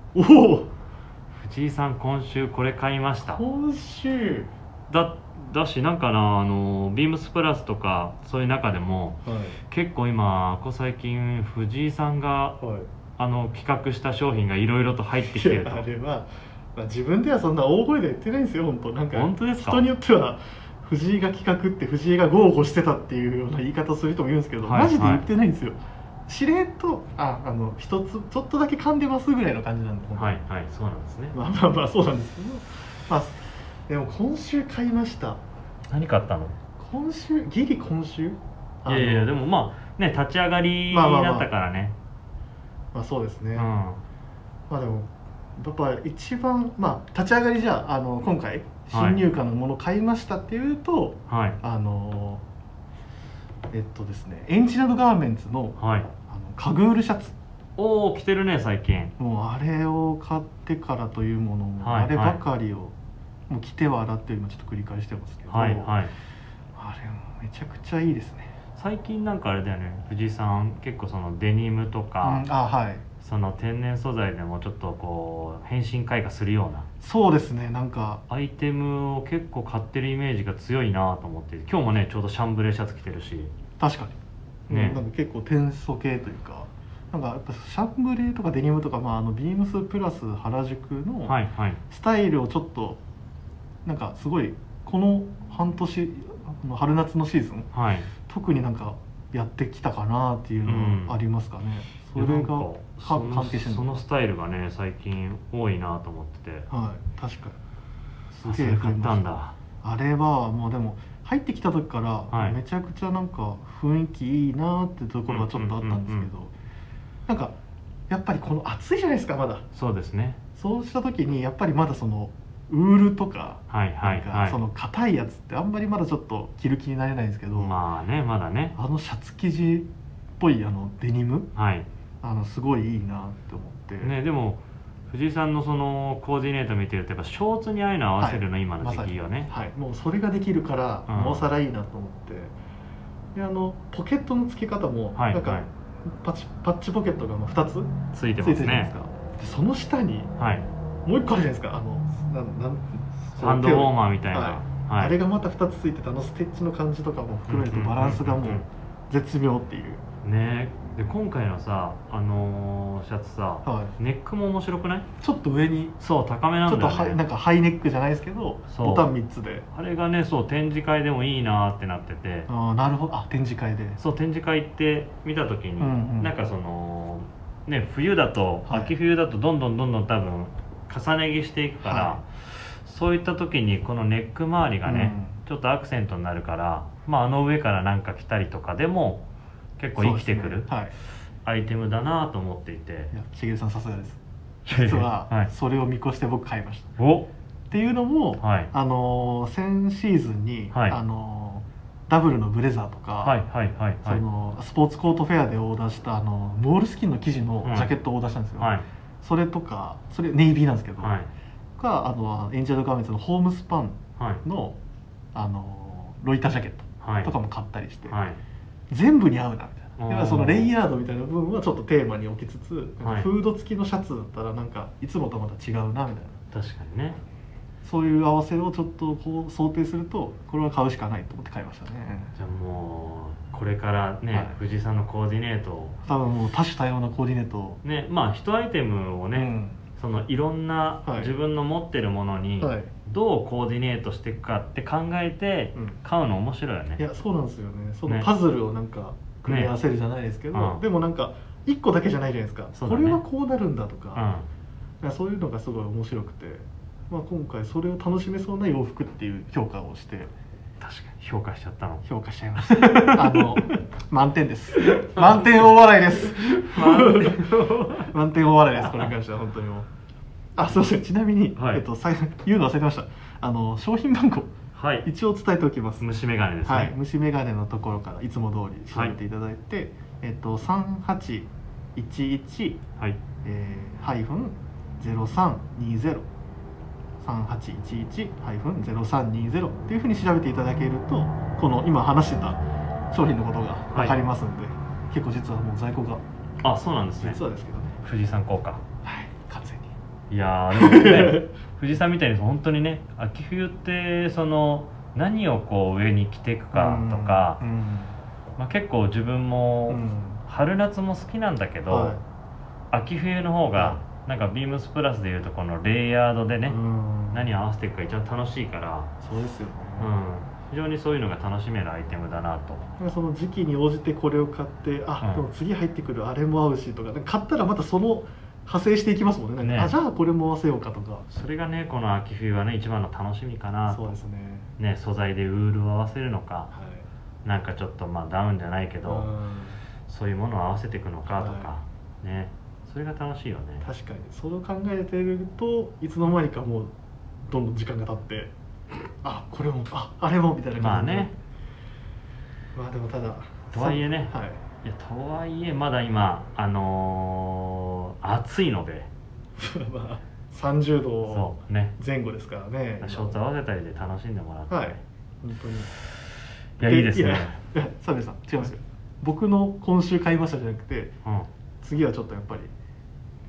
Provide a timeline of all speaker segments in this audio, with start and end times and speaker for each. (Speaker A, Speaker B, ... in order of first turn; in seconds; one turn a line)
Speaker A: 0.1-0.7
Speaker B: 1.4-3.4
Speaker A: 3.2-4.5
Speaker B: 4.9-12.6
Speaker A: 9.2-9.6
Speaker A: 12.6-12.9
Speaker B: 13.2-15.8
Speaker A: 15.3-30.4
Speaker B: 19.1-19.9
Speaker B: 24.6-25.3
Speaker B: 30.1-31.4
Speaker A: 31.3-35.4
Speaker B: 35.9-36.6
Speaker A: 36.8-39.3
Speaker B: 38.9-42.0
Speaker A: 40.9-41.5
Speaker A: 42.9-43.7
Speaker B: 43.5-44.0
Speaker A: 44.7-52.4
Speaker B: 48.9-49.2
Speaker B: 51.3-51.6
Speaker A: 53.7-57.3
Speaker B: 55.8-56.1
Speaker B: 57.8-59.1
Speaker A: 59.2-62.9
Speaker B: 61.8-62.4
Speaker A: 63.5-65.9
Speaker B: 65.5-66.1
Speaker A: 66.7-68.5
Speaker B: 68.8-72.5
Speaker A: 72.2-73.0
Speaker B: 73.2-76.9
Speaker A: 77.0-78.2
Speaker B: 78.3-83.5
Speaker A: 83.8-84.2
Speaker B: 84.7-85.0
Speaker A: 84.7-91.3
Speaker B: 91.2-91.8
Speaker A: 91.9-93.0
Speaker A: 93.8-97.7
Speaker B: 97.7-98.1
Speaker A: 98.3-104.0
Speaker B: 100.6-101.2
Speaker B: 102.1-106.7
Speaker A: 106.7-107.6
Speaker B: 108.3-109.5
Speaker A: 108.4-116.5
Speaker B: 112.3-112.6
Speaker B: 115.3-116.3
Speaker A: 117.3-117.5
Speaker A: 118.1-119.7
Speaker B: 119.7-120.4
Speaker A: 120.5-127.8
Speaker B: 123.7-124.6
Speaker B: 127.6-128.8
Speaker A: 128.8-129.9
Speaker A: 130.4-131.5
Speaker B: 131.6-131.9
Speaker A: 132.2-134.1
Speaker B: 134.0-139.5
Speaker A: 138.2-142.5
Speaker B: 141.1-141.4
Speaker A: 143.3-150.3
Speaker B: 145.2-145.7
Speaker B: 148.1-148.9
Speaker B: 150.4-150.7
Speaker A: 151.0-160.0
Speaker B: 153.3-155.2
Speaker B: 157.5-158.7
Speaker B: 160.2-165.1
Speaker A: 163.6-163.9
Speaker A: 165.2-165.9
Speaker B: 166.0-167.2
Speaker A: 166.7-169.7
Speaker B: 168.7-169.1
Speaker B: 169.7-172.5
Speaker A: 172.5-174.0
Speaker B: 174.0-189.2
Speaker A: 175.8-176.3
Speaker A: 178.7-178.9
Speaker A: 181.8-182.2
Speaker A: 184.8-185.4
Speaker B: 189.8-190.7
Speaker A: 190.0-190.9
Speaker B: 191.4-193.1
Speaker A: 193.1-196.9
Speaker B: 194.7-195.5
Speaker B: 197.0-197.3
Speaker A: 197.7-203.4
Speaker B: 198.4-198.7
Speaker B: 200.7-201.0
Speaker B: 203.2-204.2
Speaker A: 204.0-211.1
Speaker B: 207.6-207.9
Speaker B: 208.6-208.8
Speaker B: 211.0-211.3
Speaker A: 211.8-214.8
Speaker B: 214.2-214.4
Speaker A: 215.3-218.2
Speaker B: 217.0-217.3
Speaker B: 218.1-218.4
Speaker A: 218.9-226.4
Speaker B: 220.0-220.7
Speaker B: 223.0-223.3
Speaker B: 226.5-227.2
Speaker A: 227.8-232.3
Speaker B: 232.3-236.0
Speaker A: 236.0-237.8
Speaker B: 237.8-247.0
Speaker A: 239.3-239.8
Speaker A: 241.0-241.3
Speaker A: 242.6-242.9
Speaker A: 247.0-254.2
Speaker B: 249.4-249.7
Speaker B: 250.5-250.8
Speaker B: 252.7-253.2
Speaker B: 254.1-254.5
Speaker A: 255.0-260.3
Speaker B: 260.8-262.0
Speaker A: 262.0-269.9
Speaker B: 262.6-263.8
Speaker B: 264.8-268.1
Speaker A: 270.6-274.5
Speaker B: 271.6-271.8
Speaker B: 274.7-275.1
Speaker A: 275.0-276.0
Speaker B: 276.0-276.9
Speaker A: 276.6-282.8
Speaker A: 283.4-286.3
Speaker A: 287.2-292.6
Speaker A: 293.1-296.2
Speaker B: 293.9-294.2
Speaker B: 296.6-297.4
Speaker A: 297.2-297.9
Speaker B: 298.0-298.8
Speaker A: 299.0-299.9
Speaker B: 300.3-307.6
Speaker A: 300.7-301.5
Speaker A: 306.7-308.2
Speaker B: 308.6-312.2
Speaker A: 309.9-310.4
Speaker A: 311.9-312.2
Speaker B: 312.9-316.8
Speaker A: 313.7-314.0
Speaker A: 316.6-317.5
Speaker B: 317.3-319.1
Speaker A: 319.2-320.1
Speaker B: 320.0-322.9
Speaker A: 323.0-331.2
Speaker B: 329.6-329.9
Speaker B: 331.3-334.1
Speaker A: 333.9-334.7
Speaker B: 334.8-336.7
Speaker A: 336.7-337.1
Speaker B: 337.4-339.3
Speaker A: 339.1-339.8
Speaker B: 340.1-343.9
Speaker A: 341.3-341.7
Speaker A: 343.8-346.9
Speaker A: 347.4-348.5
Speaker A: 349.2-351.3
Speaker B: 350.8-351.3
Speaker A: 352.7-354.6
Speaker B: 353.7-359.1
Speaker A: 359.6-363.4
Speaker B: 361.2-361.9
Speaker B: 363.0-365.0
Speaker A: 364.7-365.9
Speaker B: 366.8-367.6
Speaker A: 366.8-371.1
Speaker A: 371.8-372.7